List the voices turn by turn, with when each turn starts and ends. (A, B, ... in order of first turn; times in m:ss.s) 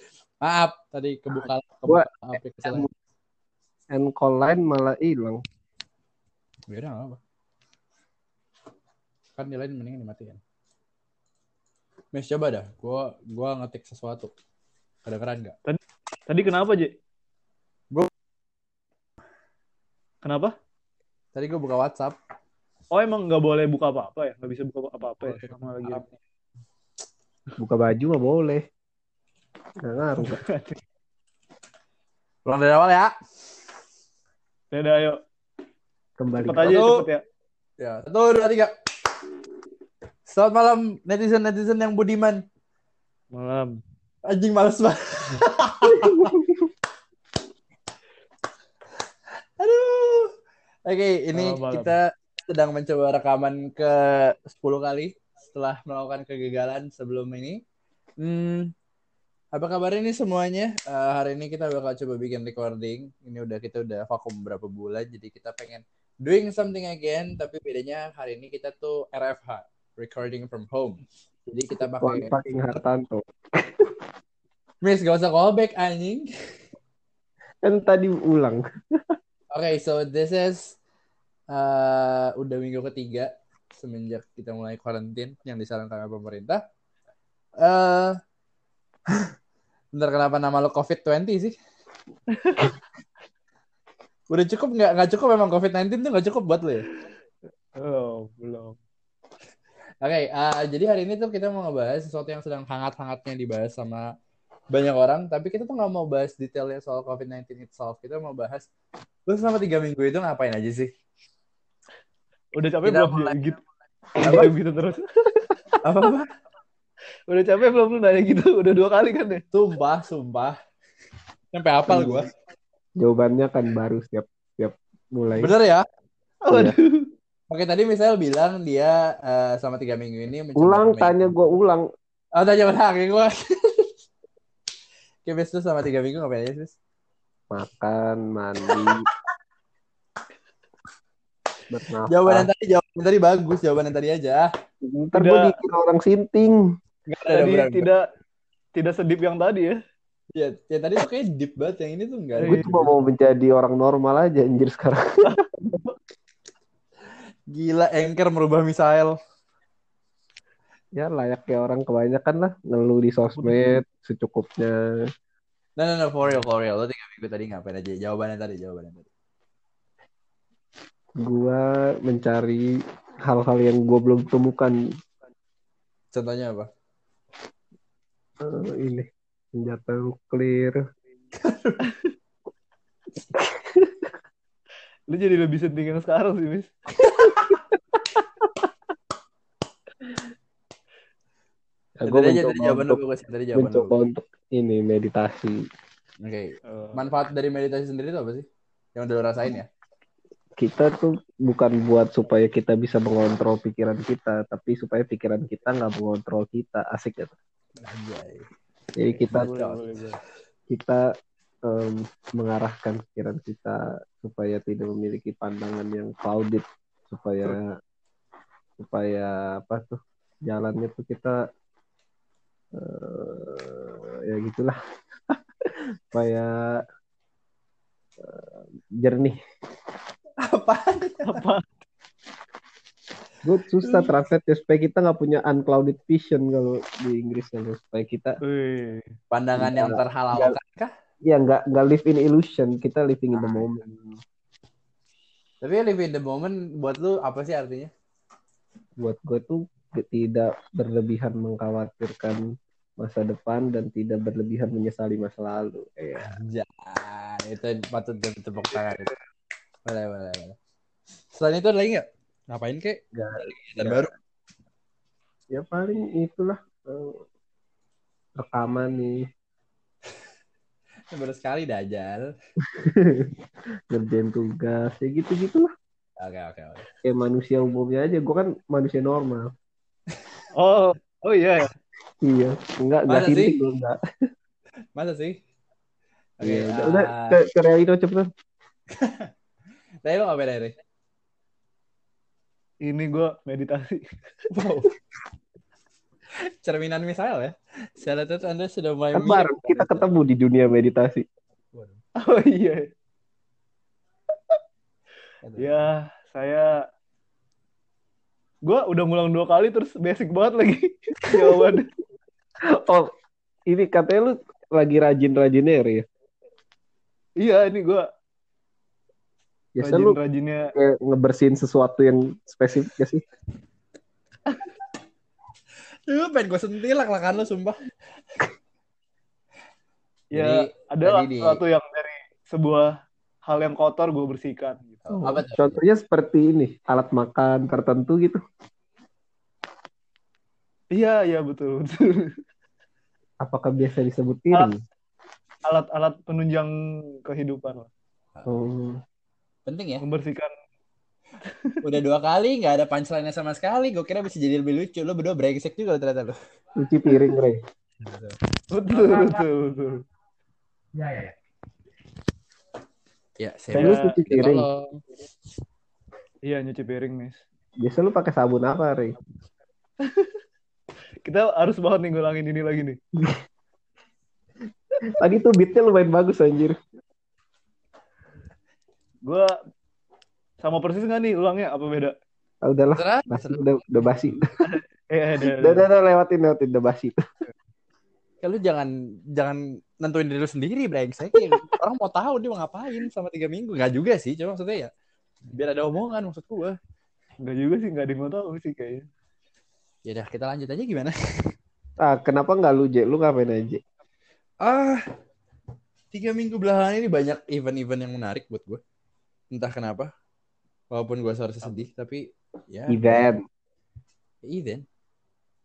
0:00.4-0:02.9 A
0:01.4-0:02.1 B
0:02.6-0:02.9 B
0:03.9-0:05.4 B
0:06.7-0:07.2 A
0:09.4-0:10.4 A
0:12.1-0:14.3 A
0:15.0-0:15.6 A
0:15.7-0:16.9 C
0:20.2-0:20.5 C
0:21.3-0:22.2 A
0:22.9-0:26.1 C
0:25.2-0:26.0 A
0:27.6-0:28.6 B
0:29.8-0:30.4 B
0:30.2-0:30.8 C
0:32.4-0:33.1 A
0:34.7-0:35.2 C
0:36.2-0:36.8 B
0:36.4-0:37.2 C
0:36.6-0:37.0 A
0:37.8-0:38.7 A
0:40.2-0:42.4 A
0:43.3-0:43.8 C
0:44.2-0:46.4 A
0:45.9-0:46.6 B
0:49.6-0:50.3 A
0:50.8-0:57.6 A
0:51.3-0:51.9 C
0:58.2-0:58.7 A
0:59.5-1:12.8 A
1:12.0-1:13.9 B
1:14.8-1:16.3 A
1:17.6-1:19.1 B
1:19.5-1:20.8 A
1:21.5-1:26.6 A
1:27.6-1:28.2 A
1:29.9-1:31.5 A
1:32.3-1:32.7 C
1:34.3-1:36.8 A
1:37.8-1:38.8 C
1:40.0-1:44.0 A
1:44.7-1:48.7 A
1:49.3-1:50.9 A
1:52.5-1:53.6 C
1:52.8-1:53.5 A
1:54.2-1:55.6 C
1:54.2-1:54.5 B
1:54.2-1:54.5 A
1:55.8-1:56.3 A
1:57.3-1:59.4 C
1:59.5-2:00.6 A
2:01.5-2:02.3 A
2:01.9-2:02.2 B
2:03.0-2:05.5 B
2:05.3-2:05.8 A
2:06.4-2:07.1 C
2:07.5-2:11.4 A
2:10.6-2:11.8 B
2:12.3-2:13.9 A
2:15.2-2:16.8 A
2:17.5-2:19.0 B
2:21.7-2:22.5 B
2:22.1-2:24.5 A
2:24.8-2:26.6 B
2:25.1-2:25.5 C
2:27.1-2:27.9 A
2:27.3-2:28.0 C
2:28.7-2:29.8 C
2:30.3-2:32.9 A
2:32.4-2:32.7 C
2:32.4-2:35.4 B
2:37.5-2:39.2 A
2:41.0-2:44.8 B
2:43.4-2:43.7 C
2:45.8-2:49.1 A
2:51.2-2:54.8 B
2:56.1-2:56.7 A
2:58.4-3:00.8 B
3:01.4-3:01.8 A
3:03.3-3:04.0 B
3:05.1-3:06.7 C
3:07.0-3:07.6 A
3:07.2-3:07.6 B
3:12.0-3:13.0 B
3:12.0-3:13.9 A
3:13.5-3:15.6 B
3:16.2-3:19.7 A
3:16.7-3:17.0 C
3:20.6-3:27.3 B
3:27.8-3:28.5 A
3:29.0-3:29.4 B
3:29.1-3:30.0 A
3:29.3-3:30.2 C
3:30.7-3:31.0 B
3:31.6-3:37.7 B
3:38.8-3:41.4 B
3:42.7-3:44.8 B
3:45.3-3:46.8 B
3:48.2-3:49.4 B
3:50.4-3:51.4 A
3:51.2-3:51.7 C
3:53.4-3:58.4 B
3:53.8-3:54.1 A
3:58.4-3:59.1 C
3:59.3-4:00.9 A
3:59.6-4:00.5 B
4:01.2-4:04.2 B
4:03.3-4:03.6 A
4:05.6-4:07.9 A
4:09.0-4:12.4 B
4:13.0-4:16.3 B
4:16.2-4:19.1 A
4:19.8-4:20.5 A
4:21.3-4:24.1 A
4:23.1-4:24.1 B
4:25.5-4:27.2 B
4:28.4-4:29.2 B
4:31.1-4:32.3 A
4:32.6-4:33.3 B
4:33.9-4:35.7 B
4:36.2-4:36.9 A
4:37.0-4:39.5 B
4:40.5-4:41.7 C
4:42.2-4:44.0 B
4:43.1-4:43.6 A
4:45.0-4:45.4 A
4:46.4-4:47.4 A
4:46.4-4:48.3 B
4:48.9-4:49.3 A
4:50.0-4:50.7 A
4:52.8-4:54.0 C
4:54.5-4:54.9 A
4:56.6-5:00.0 A
4:59.1-5:01.2 B
5:01.7-5:02.0 A
5:02.2-5:02.9 C
5:05.4-5:05.9 A
5:05.6-5:06.7 C
5:08.6-5:11.9 C
5:12.7-5:13.1 B
5:13.7-5:16.0 B
5:17.4-5:18.1 C
5:19.8-5:20.2 B
5:19.8-5:20.7 C
5:20.7-5:23.2 B
5:26.1-5:27.7 A
5:30.3-5:31.6 A
5:30.3-5:32.9 C
5:33.5-5:35.0 C
5:35.0-5:35.8 A
5:35.1-5:38.4 B
5:40.9-5:42.4 C
5:43.4-5:44.8 B
5:45.6-5:46.7 C
5:47.2-5:47.9 C
5:48.4-5:49.0 B
5:49.6-5:50.0 A
5:50.0-5:50.5 C
5:51.5-5:51.8 C
5:51.8-5:56.3 A
5:56.8-5:57.6 B
5:58.0-5:58.4 A
5:58.7-6:00.0 C
5:58.9-5:59.4 A
6:00.9-6:01.3 A
6:03.4-6:05.0 A
6:03.7-6:04.7 B
6:03.7-6:04.2 C
6:06.4-6:07.4 C
6:07.8-6:09.2 B
6:10.0-6:10.4 C
6:11.2-6:13.0 C
6:15.1-6:16.8 B
6:19.2-6:19.5 C
6:20.6-6:22.1 C
6:22.6-6:24.5 B
6:22.9-6:24.3 A
6:24.7-6:25.9 C
6:25.4-6:27.2 B
6:28.4-6:34.9 A
6:35.5-6:36.8 A
6:37.4-6:39.0 C
6:40.0-6:41.1 A
6:42.0-6:43.8 B
6:44.6-6:45.0 A
6:46.1-6:48.8 A
6:49.5-6:50.1 A
6:50.9-6:53.3 A
6:52.9-6:53.4 B
6:54.4-6:54.8 A